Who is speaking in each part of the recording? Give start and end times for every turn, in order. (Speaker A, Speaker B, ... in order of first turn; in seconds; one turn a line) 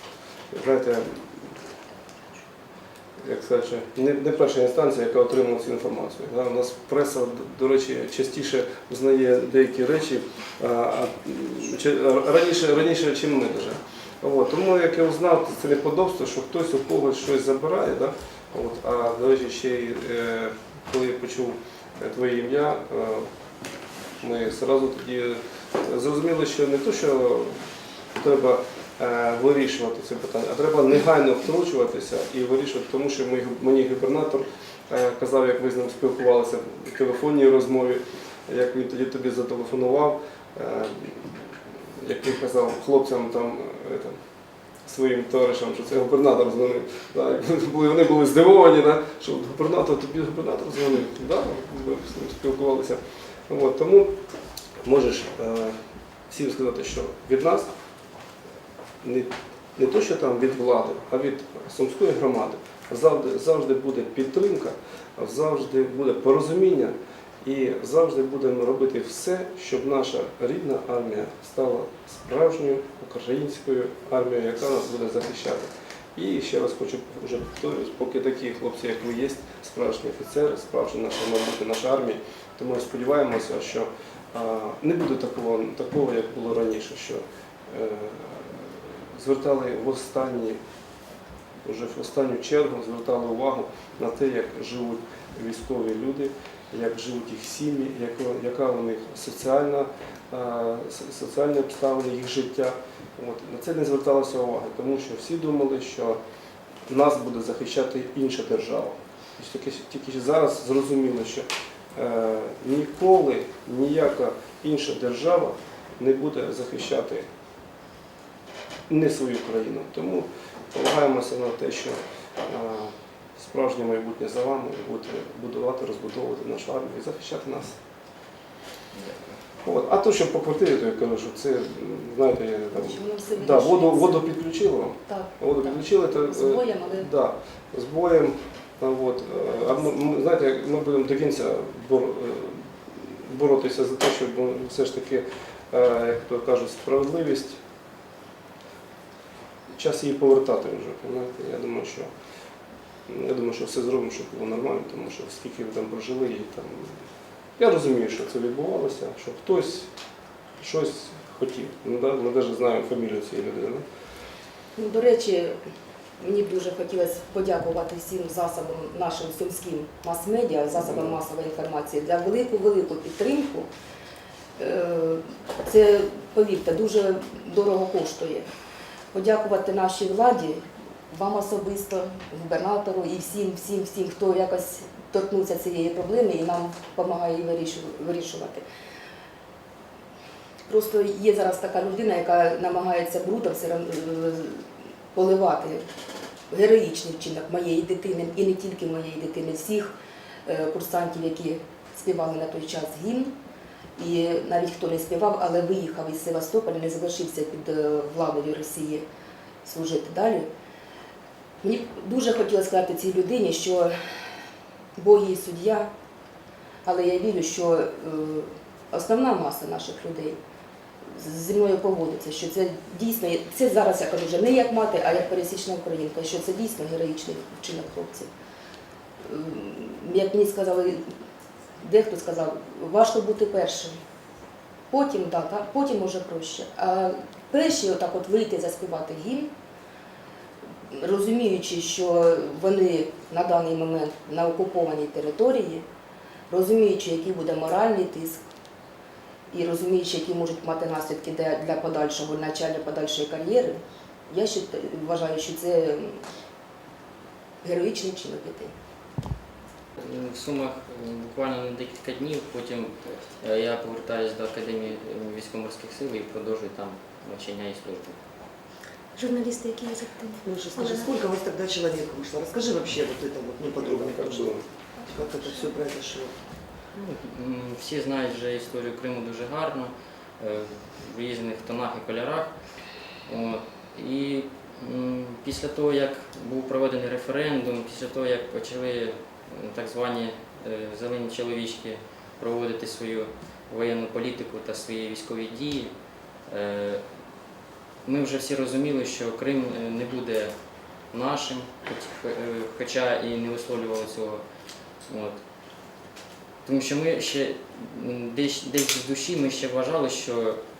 Speaker A: 0.5-1.2
Speaker A: 3.2-23.3
Speaker A: 24.2-27.6
Speaker A: 28.2-44.2
Speaker A: 44.9-54.1
Speaker A: 54.8-57.7
Speaker A: 59.0-90.6
Speaker A: 91.6-106.2
Speaker A: 106.9-117.3
Speaker A: 118.9-127.8
Speaker B: 128.9-129.4
Speaker A: 129.6-147.6
Speaker C: 132.7-134.3
Speaker C: 135.0-137.1
Speaker A: 149.7-152.1
Speaker A: 153.1-157.0
Speaker A: 157.6-159.9
Speaker A: 160.6-163.8
Speaker C: 164.8-165.6
Speaker C: 166.2-173.7
Speaker A: 170.8-171.2
Speaker C: 174.6-178.5
Speaker C: 179.1-188.6
Speaker C: 190.7-195.8
Speaker C: 196.5-199.9
Speaker C: 200.4-203.3
Speaker C: 204.0-209.1
Speaker C: 209.6-210.5
Speaker C: 211.6-213.9
Speaker C: 215.0-215.9
Speaker C: 216.8-220.4
Speaker C: 221.1-228.3
Speaker C: 229.2-231.1
Speaker C: 231.8-233.9
Speaker C: 234.9-239.5
Speaker C: 240.9-245.8
Speaker C: 246.5-248.4
Speaker C: 249.5-256.2
Speaker C: 257.6-258.7
Speaker B: 260.0-268.2
Speaker D: 269.1-271.1
Speaker E: 270.4-276.4
Speaker A: 273.8-274.6
Speaker D: 275.0-275.7
Speaker B: 276.9-282.5
Speaker B: 283.2-295.9
Speaker B: 296.5-297.0
Speaker B: 298.0-300.5
Speaker B: 301.1-304.4
Speaker B: 305.1-305.4
Speaker B: 306.6-310.6